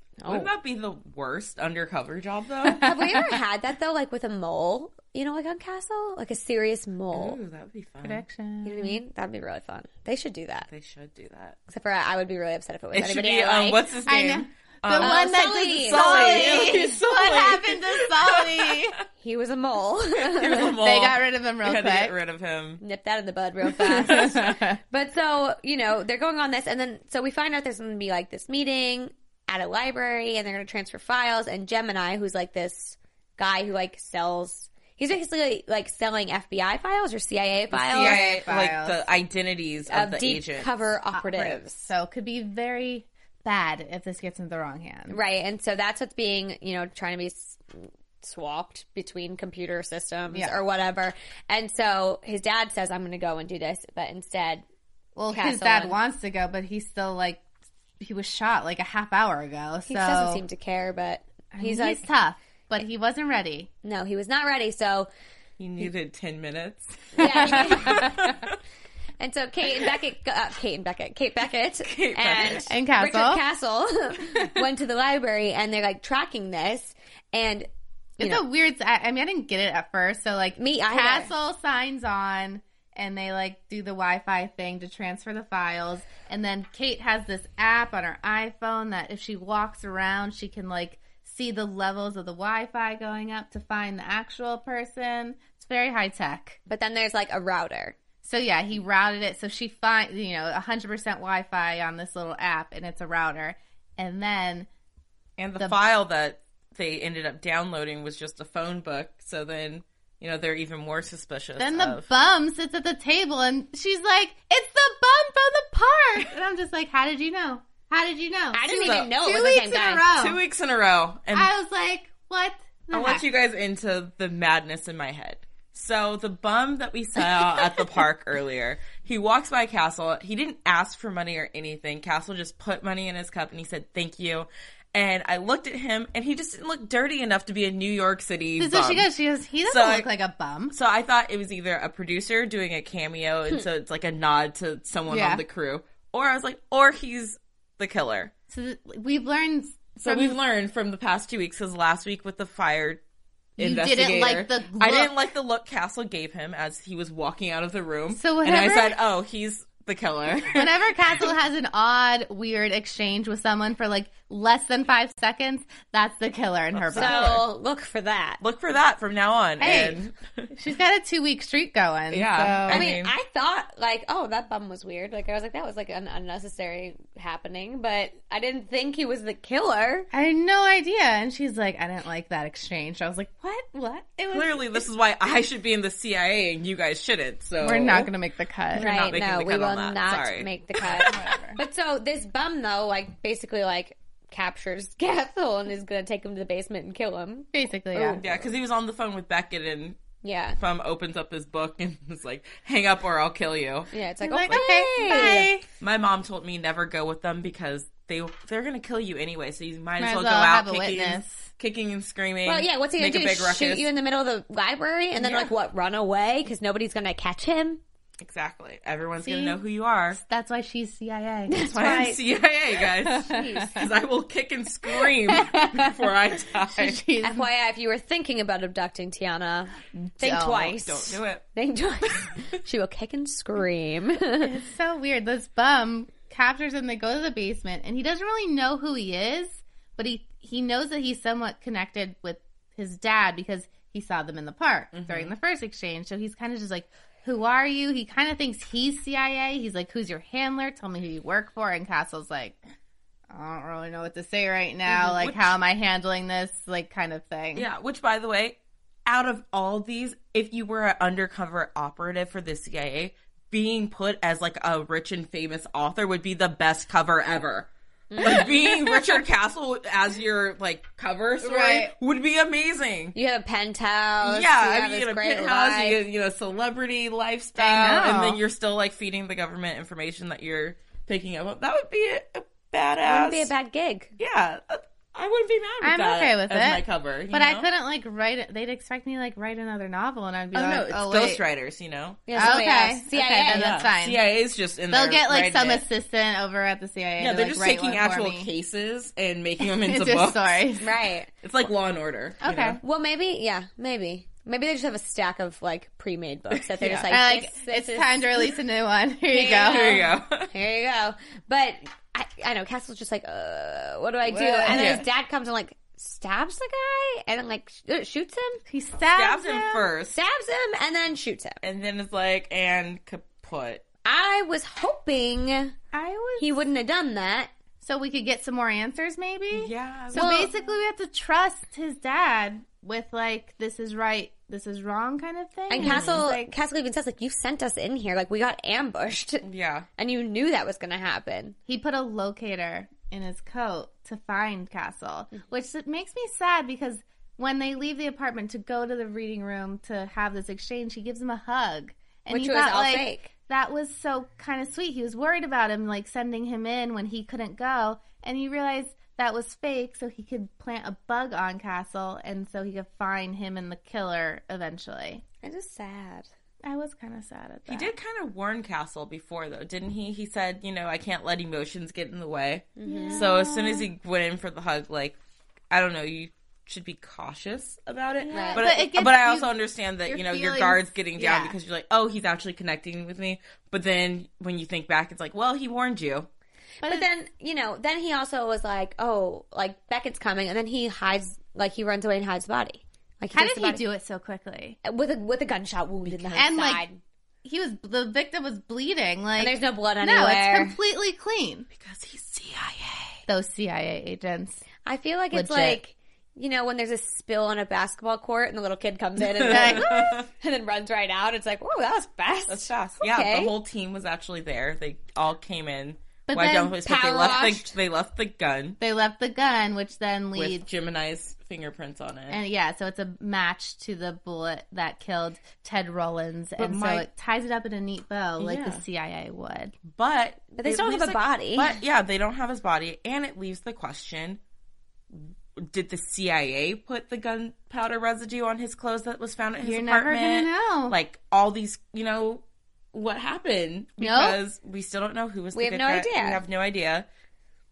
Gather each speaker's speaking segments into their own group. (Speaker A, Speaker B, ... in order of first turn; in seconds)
Speaker A: 0.2-0.5, 2.8-7.4, 8.6-10.7, 11.7-13.8, 15.0-17.0, 19.2-20.7, 22.8-38.3, 39.9-41.9, 45.1-54.6, 55.3-56.0, 59.9-62.1, 63.8-65.1, 67.2-68.1, 69.2-77.7, 78.2-78.4, 80.6-81.3, 96.7-98.0, 118.5-120.1, 166.9-168.4, 172.7-180.1, 188.8-198.2, 200.2-200.6, 203.9-205.5, 212.4-217.8, 221.5-222.2, 223.3-223.9, 227.2-234.5, 268.1-268.5, 273.1-276.0, 283.1-284.1, 292.3-293.8, 300.8-301.3, 302.8-308.3, 309.3-318.6, 320.1-321.6, 324.1-325.8, 326.4-327.5, 330.1-330.5, 335.7-339.4, 340.0-341.6, 352.3-353.3, 365.4-366.3, 372.8-373.2, 378.3-378.7, 386.8-393.9, 394.8-397.0, 399.4-400.8, 404.9-413.5, 416.8-417.7, 430.5-431.8, 445.5-446.4
Speaker B: 0.3-2.9, 7.1-8.2, 10.7-11.6, 12.9-18.9, 20.2-22.8, 24.1-24.5, 37.9-40.8, 65.6-68.6, 71.8-72.7, 105.4-112.1, 118.8-119.1, 120.1-121.5, 122.9-139.1, 139.7-140.1, 140.7-148.3, 150.0-153.0, 153.6-160.8, 166.7-167.4, 168.4-170.5, 172.1-173.1, 184.3-188.1, 188.7-191.3, 198.1-200.0, 200.6-203.9, 204.5-213.9, 218.2-220.2, 221.6-227.0, 230.7-231.4, 244.9-245.3, 254.9-255.5, 257.6-273.1, 274.2-283.5, 284.2-287.7, 290.5-292.6, 293.5-295.8, 297.2-300.8, 301.4-302.8, 306.7-307.2, 309.5-310.5, 314.6-315.1, 319.1-320.2, 321.6-323.9, 329.5-330.5, 335.8-336.3, 339.4-339.9, 367.7-375.2, 375.7-386.3, 396.1-396.5, 401.7-403.2, 409.2-410.3, 412.5-418.8, 420.4-422.4, 426.6-427.1, 428.4-428.8, 429.9-434.4, 435.1-447.1
Speaker C: 2.7-3.1, 8.0-9.0, 14.1-19.0, 20.8-22.1, 23.8-24.8, 37.7-39.1, 41.1-45.2, 50.3-50.6, 55.2-57.4, 58.0-60.4, 61.5-63.7, 67.8-68.1, 72.7-73.4, 78.2-96.6, 98.2-104.7, 111.6-120.4, 121.3-123.2, 138.6-140.8, 145.1-145.4, 148.5-150.4, 153.6-155.1, 158.1-159.0, 160.5-167.4, 169.6-170.0, 170.5-172.9, 180.1-184.9, 187.6-189.2, 190.8-191.6, 197.5-198.2, 204.2-205.7, 210.0-211.5, 219.2-219.6, 220.1-222.1, 223.0-223.7, 224.9-225.9, 226.7-227.5, 230.2-230.8, 234.4-252.6, 253.3-257.7, 271.4-271.9, 277.6-278.4, 285.8-291.4, 292.4-294.2, 294.9-298.5, 299.6-300.9, 302.4-302.8, 307.1-310.1, 314.3-315.0, 318.7-319.9, 325.9-326.6, 327.8-336.5, 341.7-365.2, 366.6-367.9, 372.9-373.9, 378.2-381.6, 393.3-394.8, 396.4-396.8, 397.4-401.7, 403.3-404.6, 405.3-405.8, 409.5-410.2, 416.3-416.8, 418.8-420.6, 422.3-429.8, 439.6-441.0, 444.0-444.4